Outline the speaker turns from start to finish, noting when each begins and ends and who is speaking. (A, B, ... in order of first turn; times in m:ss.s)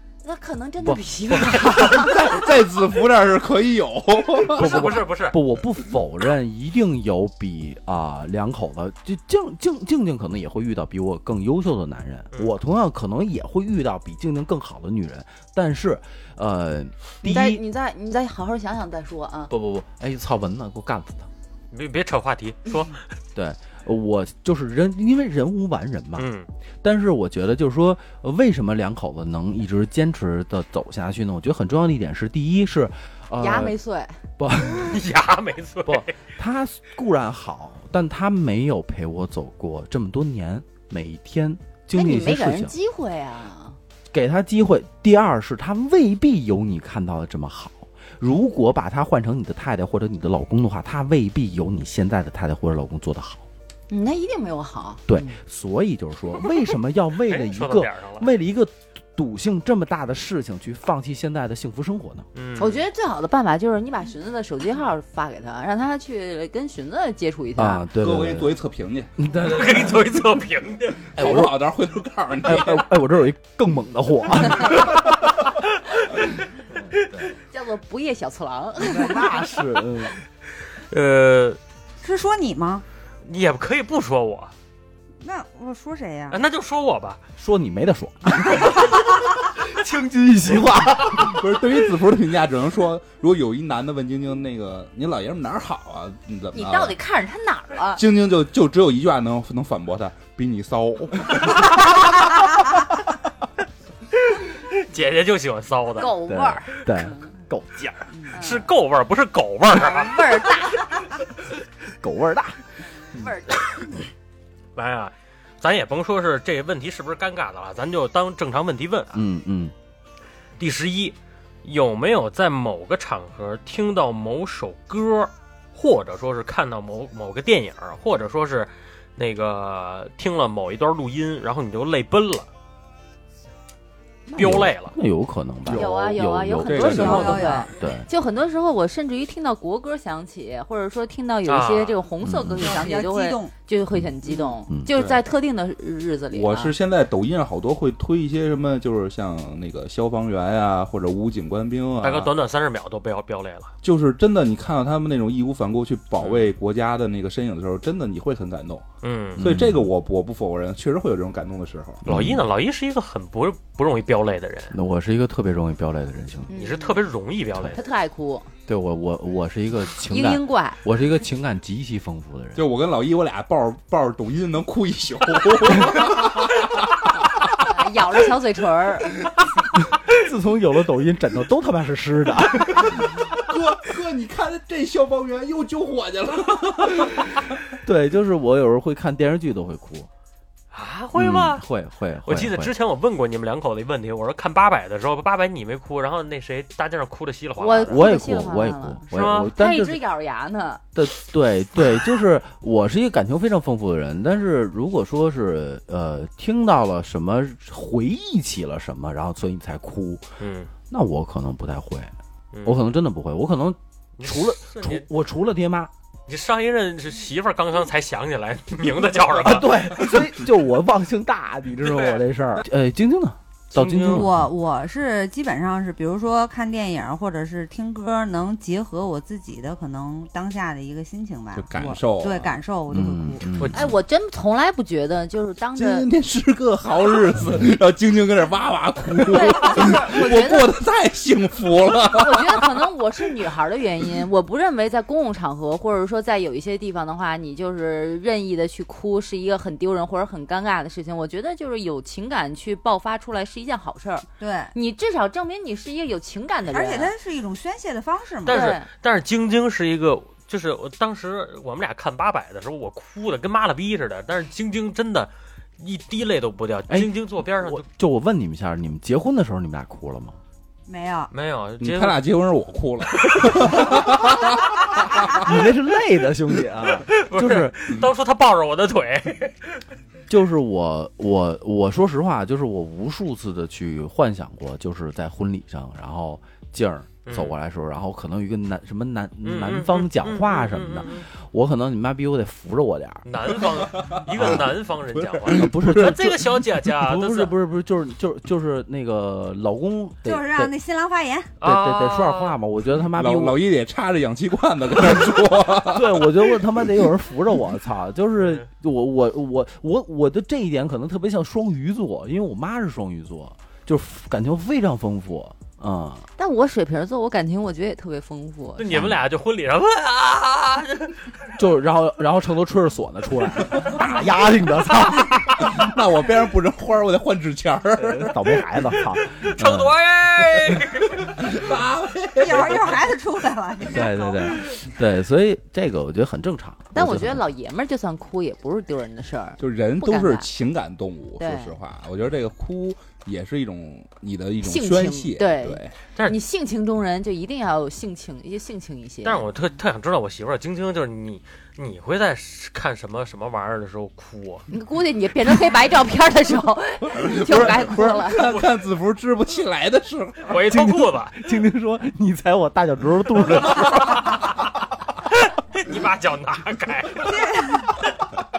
0:00.2-0:02.2 A
0:00.8-0:01.5 B
0:01.9-0:04.7 C
0:04.5-0:17.6 B
0:04.5-0:05.4 D
0:17.2-0:19.5 A
0:19.5-0:21.3 B
0:21.7-0:23.0 D
0:23.4-0:26.3 B
0:26.2-0:26.5 D
0:26.8-0:33.8 B
0:33.4-0:34.2 A
0:34.4-0:35.0 B
0:34.7-0:36.2 D
0:35.9-0:42.7 B
0:41.9-0:43.8 A
0:44.1-0:53.4 B
0:53.9-0:55.4 A
0:55.1-1:02.3 B
0:57.3-0:58.3 D
1:02.4-1:02.8 D
1:02.6-1:07.8 A
1:07.6-1:08.5 B
1:07.9-1:09.1 C
1:09.2-1:10.1 B
1:09.4-1:11.1 D
1:11.1-1:12.9 C
1:11.2-1:11.6 B
1:12.4-1:15.2 B
1:16.8-1:17.2 B
1:17.5-1:19.3 A
1:18.8-1:20.2 B
1:20.8-1:21.6 D
1:22.0-1:22.8 E
1:23.2-1:24.5 D
1:25.2-1:26.4 E
1:26.3-1:27.2 D
1:27.4-1:31.4 B
1:31.1-1:37.0 C
1:36.5-1:38.0 A
1:37.9-1:41.8 C
1:44.4-1:46.1 D
1:46.0-1:47.3 A
1:46.3-1:48.0 B
1:48.3-1:48.7 A
1:48.3-1:50.2 D
1:49.8-1:51.0 A
1:51.9-1:52.6 B
1:53.1-1:53.7 A
1:54.8-1:59.2 D
1:59.1-1:59.7 B
2:00.6-2:12.5 D
2:14.3-2:18.1 B
2:14.4-2:15.0 D
2:15.7-2:17.4 C
2:15.7-2:26.7 A
2:16.8-2:17.7 E
2:21.5-2:22.0 D
2:22.2-2:22.8 B
2:22.6-2:23.5 E
2:24.9-2:25.2 C
2:26.3-2:32.3 C
2:32.0-2:33.7 D
2:33.8-2:38.8 C
2:36.2-2:36.5 D
2:39.0-2:39.4 D
2:39.4-2:42.3 C
2:39.4-2:39.9 B
2:42.1-2:42.4 B
2:42.1-2:44.8 D
2:44.7-2:46.5 B
2:46.5-2:47.0 A
2:46.6-2:47.8 D
2:47.7-2:48.5 A
2:48.7-2:52.6 B
2:50.1-2:50.8 A
2:52.6-2:57.2 C
2:57.6-2:59.1 A
3:00.0-3:03.3 B
3:03.0-3:07.3 C
3:07.8-3:10.1 B
3:10.7-3:11.6 D
3:11.2-3:12.7 B
3:12.2-3:18.1 D
3:17.6-3:20.8 A
3:17.9-3:20.0 B
3:19.1-3:19.5 D
3:21.0-3:30.3 B
3:30.4-3:30.7 D
3:30.9-3:32.1 B
3:32.5-3:32.8 D
3:32.6-3:35.9 B
3:34.2-3:35.0 D
3:36.3-3:39.8 D
3:39.4-3:44.5 B
3:41.8-3:42.2 D
3:43.7-3:44.3 D
3:44.1-3:53.5 E
3:51.6-3:52.5 C
3:52.9-3:53.7 B
3:53.6-3:53.9 D
3:53.7-3:56.1 A
3:55.8-4:02.9 C
3:59.2-4:00.7 A
4:02.1-4:17.1 A
4:14.4-4:14.7 E
4:16.7-4:18.8 E
4:18.4-4:27.8 D
4:18.5-4:18.9 A
4:26.9-4:30.4 B
4:30.9-4:31.3 E
4:31.3-4:32.2 D
4:31.8-4:35.5 C
4:33.3-4:33.9 D
4:35.4-4:38.0 B
4:37.1-4:39.7 D
4:40.3-4:53.2 B
4:47.3-4:47.5 D
4:49.4-4:51.3 D
4:53.3-4:57.5 D
4:54.1-4:56.1 C
4:54.4-4:54.7 B
4:55.5-5:00.7 B
5:00.2-5:01.5 E
5:01.6-5:02.6 D
5:01.6-5:03.6 B
5:03.1-5:06.5 C
5:05.8-5:16.3 B
5:08.4-5:08.7 D
5:16.4-5:19.1 A
5:18.8-5:21.3 D
5:18.9-5:19.2 B
5:21.6-5:25.8 B
5:25.6-5:28.6 C
5:28.0-5:29.9 B
5:29.4-5:31.5 D
5:31.3-5:33.1 C
5:32.4-5:34.8 E
5:33.9-5:37.4 B
5:36.9-5:40.5 A
5:39.6-5:46.0 C
5:41.4-5:41.8 A
5:44.6-5:49.4 A
5:46.2-5:46.4 D
5:49.2-5:54.7 D
5:54.7-5:58.5 A
5:57.1-6:00.6 C
5:58.4-5:58.7 D
6:00.5-6:01.4 D
6:00.7-6:04.5 B
6:03.6-6:04.4 D
6:05.3-6:07.4 D
6:07.2-6:07.9 E